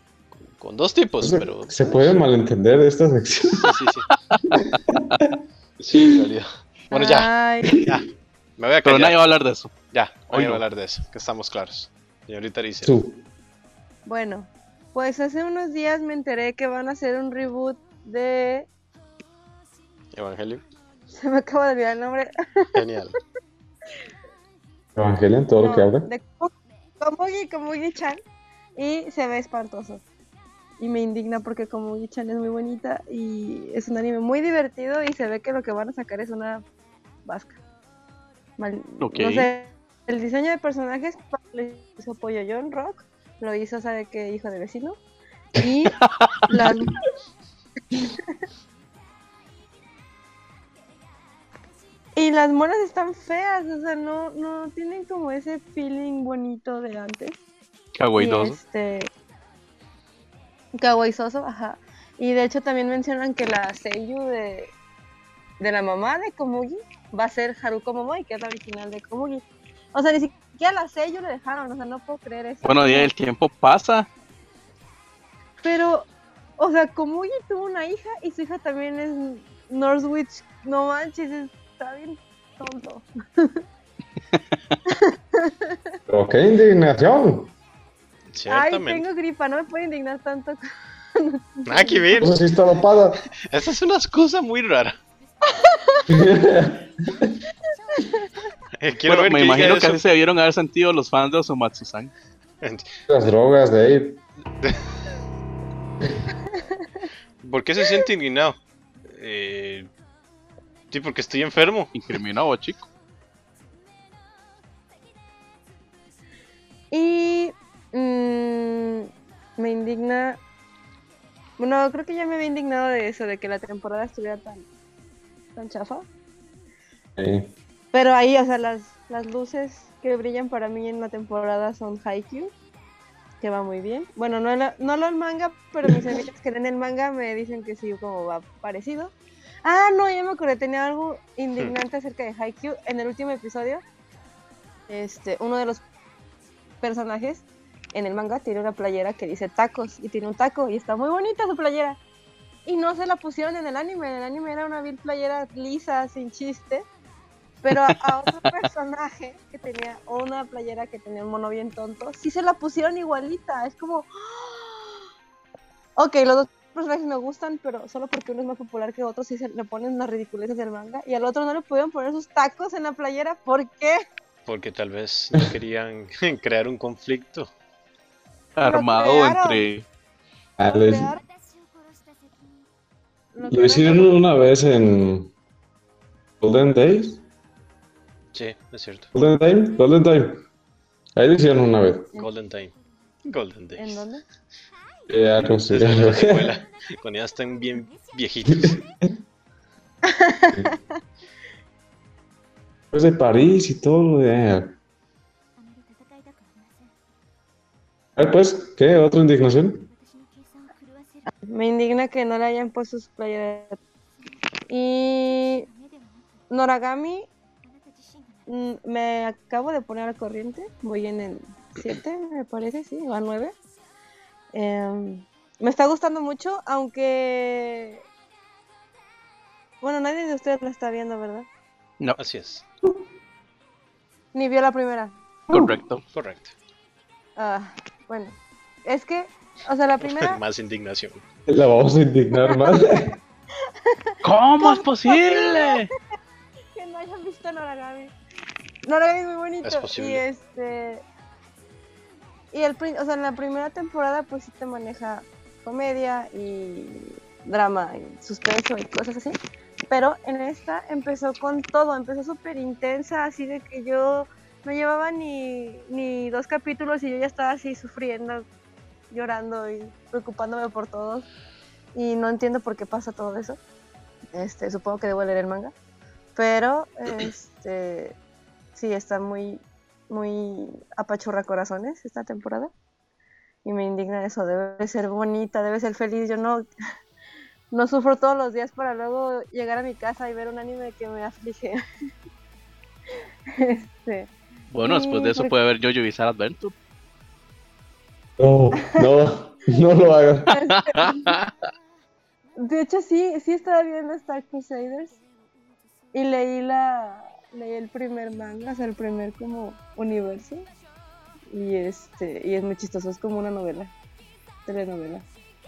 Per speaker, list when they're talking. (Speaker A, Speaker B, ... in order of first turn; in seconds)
Speaker A: 0.4-2.2, 3.5-4.1, 5.8-7.3, 7.8-9.2, 9.9-13.0, 20.1-20.6, 22.7-23.2, 88.3-89.0, 91.7-92.3, 93.5-95.0, 98.8-100.0, 102.6-102.9, 107.4-109.9, 110.9-111.9, 174.5-177.5, 188.3-189.1, 192.1-192.7, 193.2-194.0, 195.7-198.8, 232.2-232.6, 236.1-236.5, 240.0-241.2, 249.6-250.2
Speaker B: 1.2-3.8, 7.7-8.0, 12.8-13.2, 25.0-26.1, 86.1-87.5, 92.2-93.2, 96.1-97.4, 103.1-104.2, 127.2-127.5, 180.6-181.1, 183.5-185.3, 186.4-187.2, 189.1-190.4, 191.2-192.1, 195.1-196.6, 198.5-198.8, 202.9-204.8, 208.2-209.9, 235.5-235.8, 241.5-243.2, 298.4-300.6
Speaker C: 4.3-5.2, 8.8-9.7, 10.3-10.6, 39.0-39.5, 45.9-46.5, 58.0-58.6, 72.6-74.1, 99.1-102.1, 112.0-112.9, 178.6-179.8, 235.5-236.0, 244.2-245.9, 294.7-296.7, 300.5-301.5
Speaker D: 6.9-7.8, 14.1-18.7, 21.1-22.7, 25.6-28.2, 28.8-30.0, 30.8-36.6, 37.3-37.6, 38.6-45.0, 45.6-45.9, 46.5-47.0, 52.1-57.4, 58.2-59.1, 60.8-64.7, 65.6-73.1, 75.6-83.6, 84.9-85.8, 88.5-90.6, 91.2-92.3, 95.5-96.1, 98.0-98.3, 106.5-107.0, 116.9-120.4, 121.6-124.7, 125.6-126.1, 127.9-132.5, 133.4-139.1, 139.7-143.8, 144.9-145.8, 146.8-152.0, 152.7-156.9, 157.6-165.1, 166.0-174.0, 178.6-179.6, 180.7-181.2, 183.3-184.2, 193.8-194.2, 200.1-200.8, 211.3-213.8, 214.7-215.7, 216.5-217.3, 218.5-223.5, 224.5-228.0, 229.8-231.5, 234.3-235.2, 237.4-240.4, 243.6-245.9, 246.8-248.1, 248.8-251.0, 252.5-259.4, 259.9-268.5, 269.1-271.3, 271.9-273.6, 274.3-275.7, 276.4-278.2, 278.8-282.7, 283.6-286.7, 287.7-291.8, 293.5-294.3, 294.8-295.5, 300.5-301.4, 302.6-305.2, 306.1-310.7, 311.5-313.9, 314.7-315.2